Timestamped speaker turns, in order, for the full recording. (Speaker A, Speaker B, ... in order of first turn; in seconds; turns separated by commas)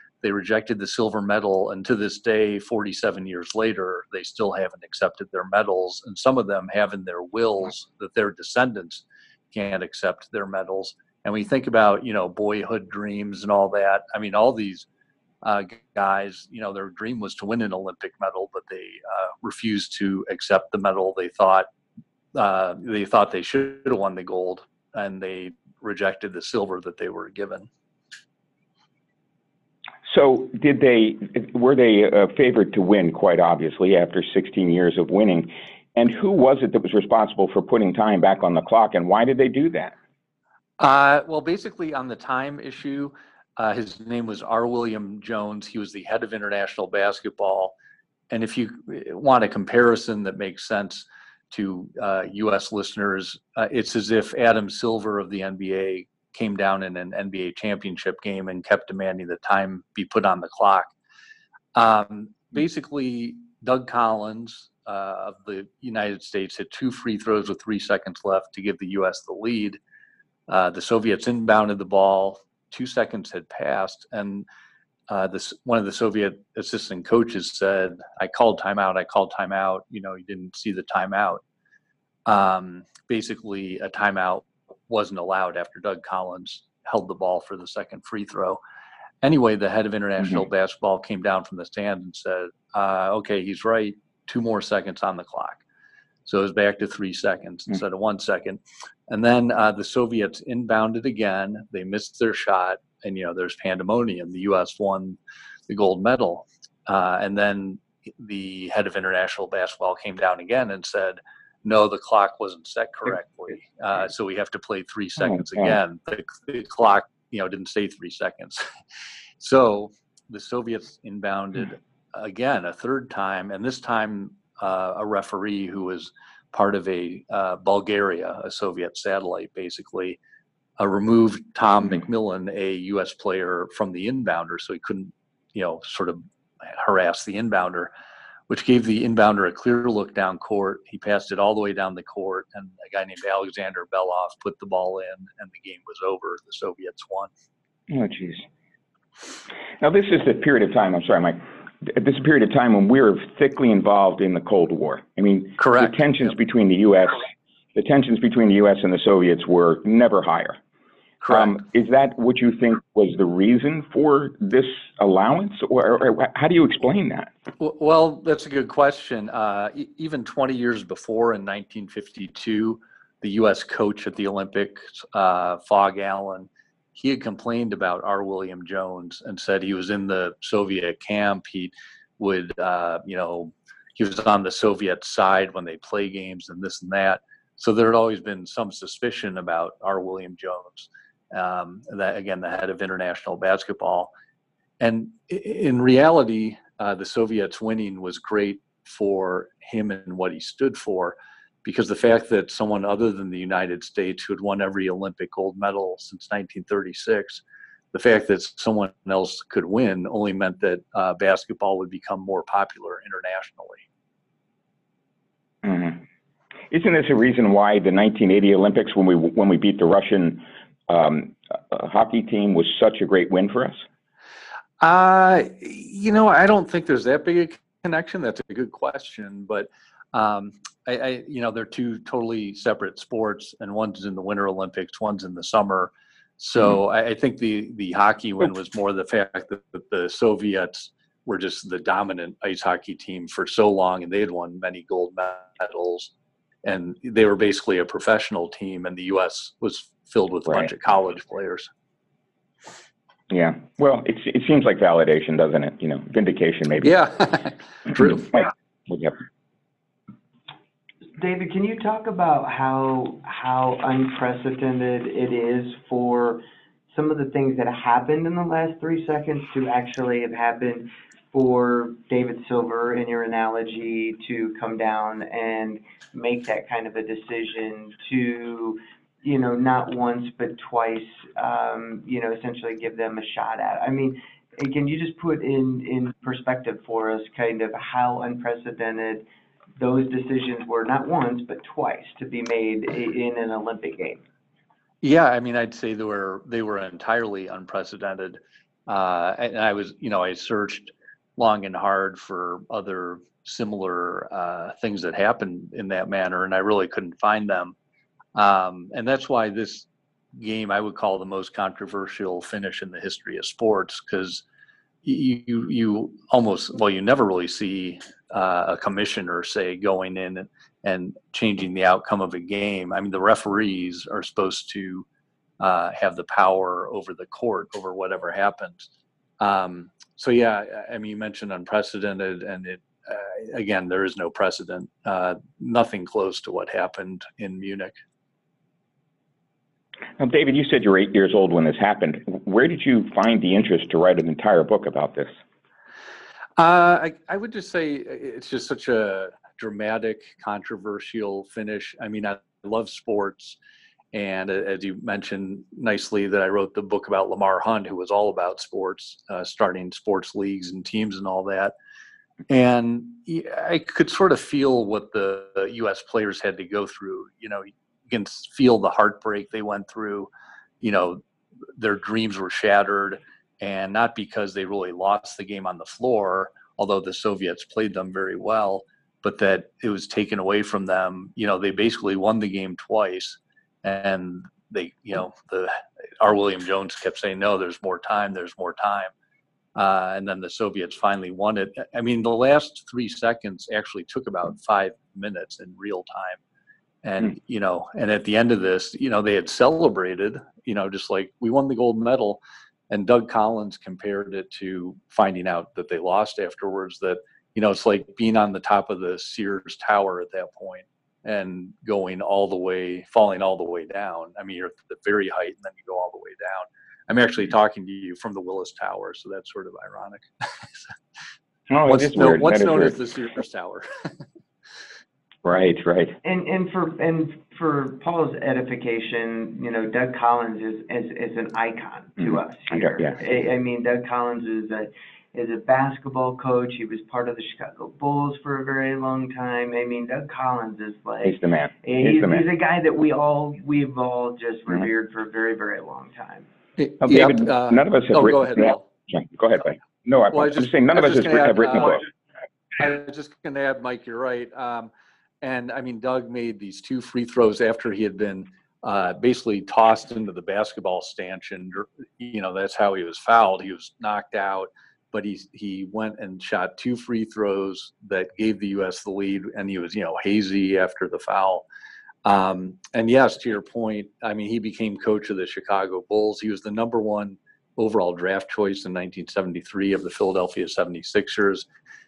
Speaker A: 0.2-14.9, Speaker A: 15.4-21.7, Speaker A: 22.3-27.7, Speaker B: 30.1-40.0, Speaker A: 40.8-47.7, Speaker A: 48.3-60.9, Speaker A: 61.8-69.8, Speaker A: 70.5-74.5, Speaker A: 75.1-81.4, Speaker A: 82.3-88.6, Speaker A: 89.2-95.6, Speaker A: 96.3-105.2, Speaker A: 105.7-118.7, Speaker B: 115.3-115.8, Speaker A: 119.4-130.2, Speaker A: 130.8-137.9, Speaker A: 138.5-147.3, Speaker B: 147.9-148.5, Speaker B: 149.8-160.6, Speaker A: 155.6-156.1, Speaker A: 161.2-161.6, Speaker B: 161.3-167.3, Speaker A: 167.6-194.1, Speaker A: 194.8-207.4, Speaker A: 207.9-213.8, Speaker B: 215.6-216.0, Speaker B: 216.7-223.8, Speaker A: 224.8-246.1, Speaker A: 246.6-251.7, Speaker B: 253.3-256.9, Speaker A: 256.8-258.4, Speaker B: 258.0-259.2, Speaker C: 261.2-289.2, Speaker C: 289.8-294.2, Speaker A: 295.0-307.8, Speaker A: 308.4-314.4, Speaker A: 315.0-325.1, Speaker A: 325.6-328.9, Speaker A: 329.4-337.9, Speaker B: 340.2-345.3, Speaker A: 346.6-353.6, Speaker A: 354.1-361.7, Speaker A: 362.5-370.3, Speaker A: 370.8-371.2, Speaker A: 371.8-389.1, Speaker A: 389.8-396.4, Speaker A: 397.0-420.9, Speaker B: 421.7-422.9, Speaker A: 421.9-424.1, Speaker B: 425.4-426.2, Speaker C: 426.2-446.5, Speaker B: 432.2-433.2, Speaker B: 441.2-442.4, Speaker A: 446.8-448.8, Speaker B: 447.0-452.0, Speaker A: 450.3-452.0, Speaker A: 452.8-454.9, Speaker A: 455.4-471.6, Speaker A: 472.2-481.7